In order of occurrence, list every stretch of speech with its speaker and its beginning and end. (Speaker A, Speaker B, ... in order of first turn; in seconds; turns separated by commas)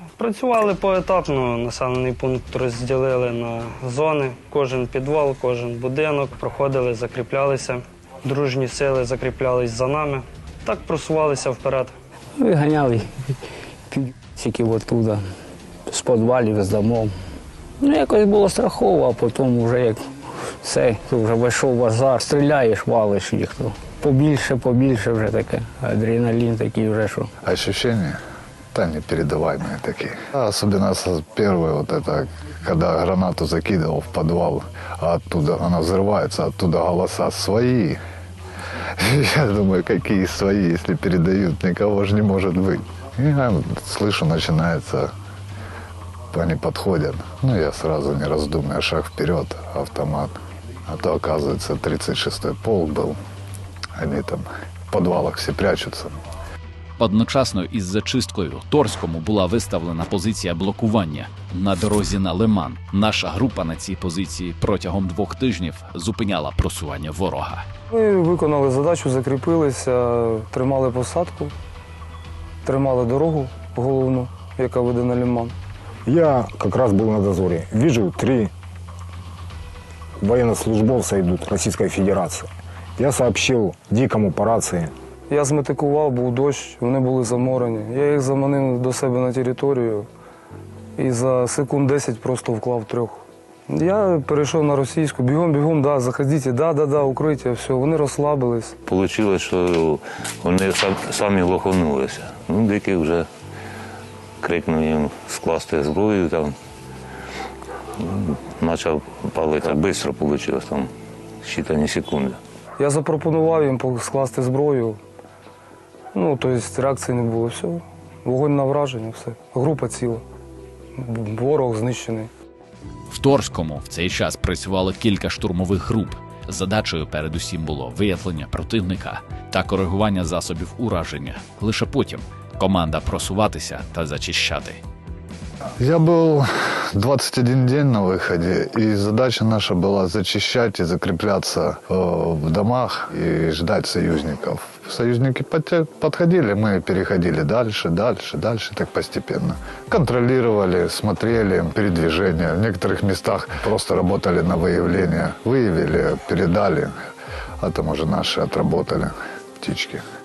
Speaker A: 0.2-11.9, Speaker B: 12.4-13.1, Speaker B: 13.9-15.2, Speaker B: 15.9-17.1, Speaker B: 17.8-20.0, Speaker B: 20.6-27.3, Speaker C: 27.4-28.2, Speaker C: 28.7-38.0, Speaker C: 39.0-45.1, Speaker C: 46.3-50.3, Speaker C: 50.9-53.2, Speaker C: 54.0-56.1, Speaker D: 57.0-67.6, Speaker E: 67.9-71.5, Speaker E: 72.6-75.5, Speaker F: 76.1-78.5, Speaker F: 80.2-84.9, Speaker E: 85.3-90.1, Speaker E: 91.0-98.8, Speaker G: 98.9-103.2, Speaker G: 104.4-106.5, Speaker G: 108.0-110.9, Speaker G: 111.5-112.4, Speaker E: 112.8-115.0, Speaker E: 116.1-120.2, Speaker E: 121.0-122.3, Speaker D: 123.1-134.8, Speaker C: 135.8-156.9, Speaker C: 157.6-160.0